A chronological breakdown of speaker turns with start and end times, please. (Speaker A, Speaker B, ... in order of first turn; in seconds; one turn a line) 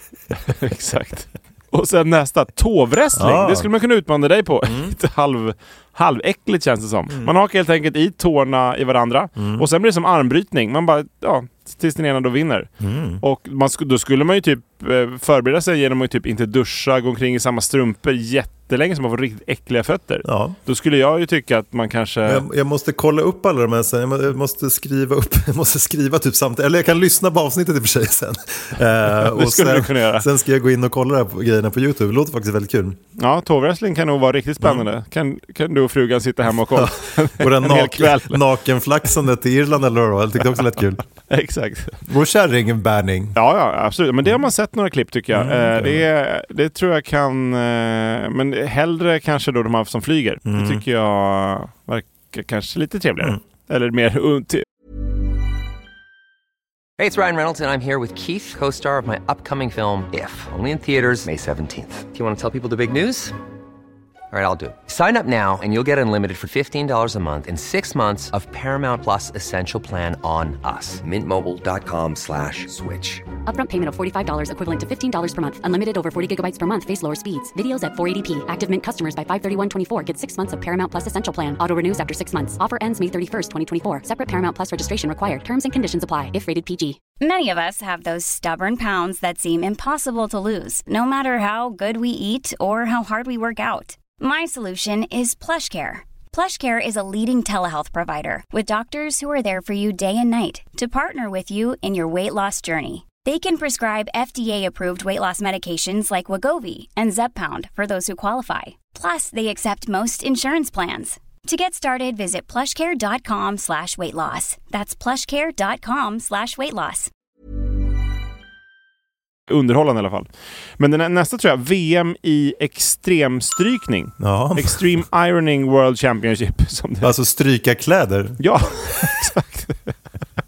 Speaker A: 0.5-12.7
Speaker B: 3.1-3.7
Speaker B: 4.7-5.0
Speaker B: 9.4-9.7
Speaker B: 12.8-13.2
Speaker A: 13.2-22.4
Speaker B: 20.2-20.6
Speaker B: 22.2-33.0
Speaker A: 29.2-30.3
Speaker A: 33.2-38.4
Speaker B: 34.6-34.9
Speaker B: 36.7-41.0
Speaker A: 41.3-42.0
Speaker B: 42.1-43.4
Speaker A: 43.4-54.6
Speaker B: 45.3-46.1
Speaker B: 50.5-50.8
Speaker C: 57.0-63.3
Speaker C: 64.3-73.2
Speaker D: 73.5-87.0
Speaker E: 87.2-117.1
Speaker A: 119.5-127.1
Speaker B: 124.2-124.8
Speaker B: 127.0-129.1
Speaker A: 128.4-129.9